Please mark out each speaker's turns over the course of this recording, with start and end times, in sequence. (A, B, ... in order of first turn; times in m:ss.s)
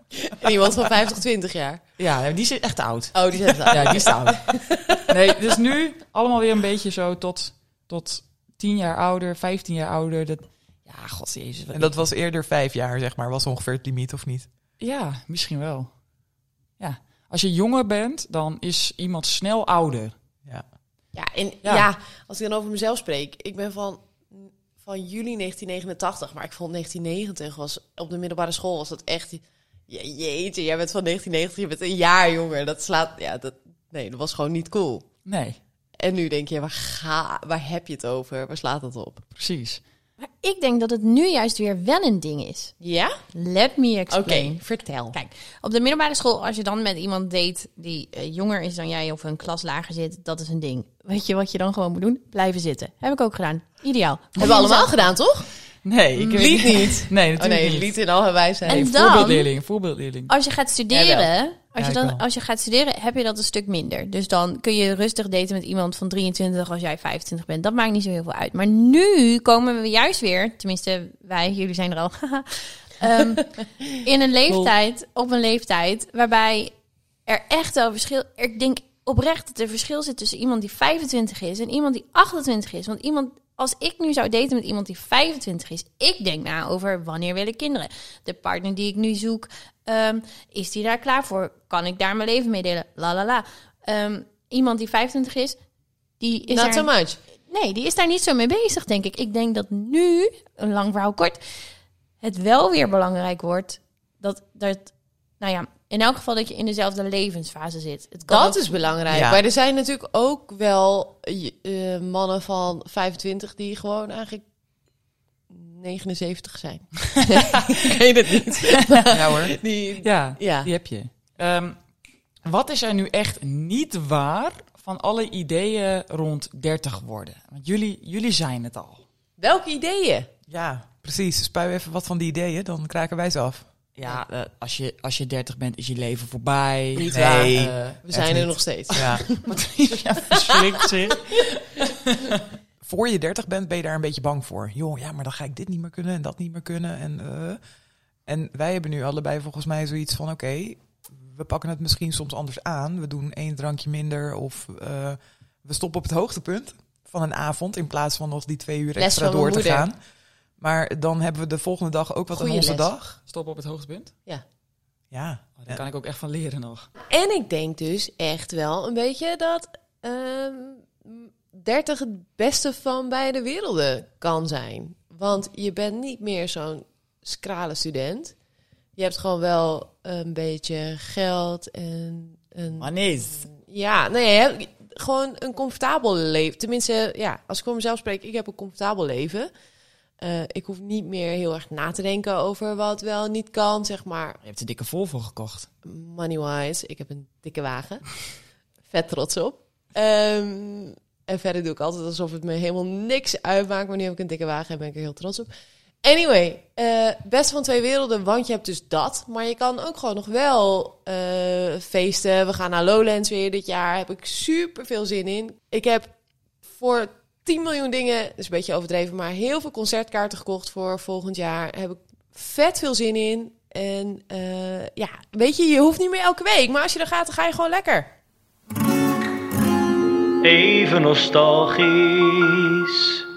0:00.2-0:01.8 A
0:02.0-0:04.5 B
0:03.1-0:05.1 A
0:05.1-0:12.0 B
0:11.7-0:14.5 C
0:14.8-0:15.9 B
0:16.8-0:20.1 B
0:21.1-0:35.0 A
0:35.2-0:35.6 B
0:36.0-0:39.2 A
0:39.4-0:39.8 B
0:40.2-0:42.7 D
0:42.8-0:43.2 A
0:43.3-0:44.6 D
0:44.1-0:45.2 A
0:45.1-0:54.9 D
0:54.4-0:55.5 A
0:55.8-0:57.9 B
0:56.2-0:58.9 A
0:58.6-1:00.3 B
0:58.7-0:59.5 D
1:00.3-1:16.7 D
1:00.9-1:01.3 A
1:01.8-1:02.2 C
1:17.3-1:35.6 D
1:36.2-1:36.9 D
1:36.5-1:37.2 A
1:37.5-1:41.4 D
1:42.2-1:48.7 D
1:48.3-1:54.4 A
1:49.1-1:49.4 C
1:55.5-2:00.7 A
1:59.1-1:59.6 C
2:00.0-2:01.8 B
2:02.4-2:09.0 B
2:09.4-2:10.3 A
2:10.5-2:13.6 C
2:13.9-2:18.0 B
2:16.9-2:19.5 A
2:17.1-2:19.2 C
2:19.4-2:22.4 B
2:20.2-2:20.7 A
2:22.8-2:27.6 C
2:28.2-2:40.0 C
2:39.0-2:39.8 A
2:40.6-2:43.2 C
2:42.3-2:42.9 A
2:43.3-2:44.1 B
2:45.1-2:45.8 C
2:45.6-2:46.9 B
2:47.1-2:58.3 A
2:59.0-3:09.5 A
3:02.8-3:03.4 B
3:10.2-3:14.4 A
3:14.4-3:15.7 B
3:15.8-3:18.3 A
3:18.9-3:25.5 A
3:26.0-3:36.1 A
3:36.7-3:48.1 A
3:50.4-3:53.2 E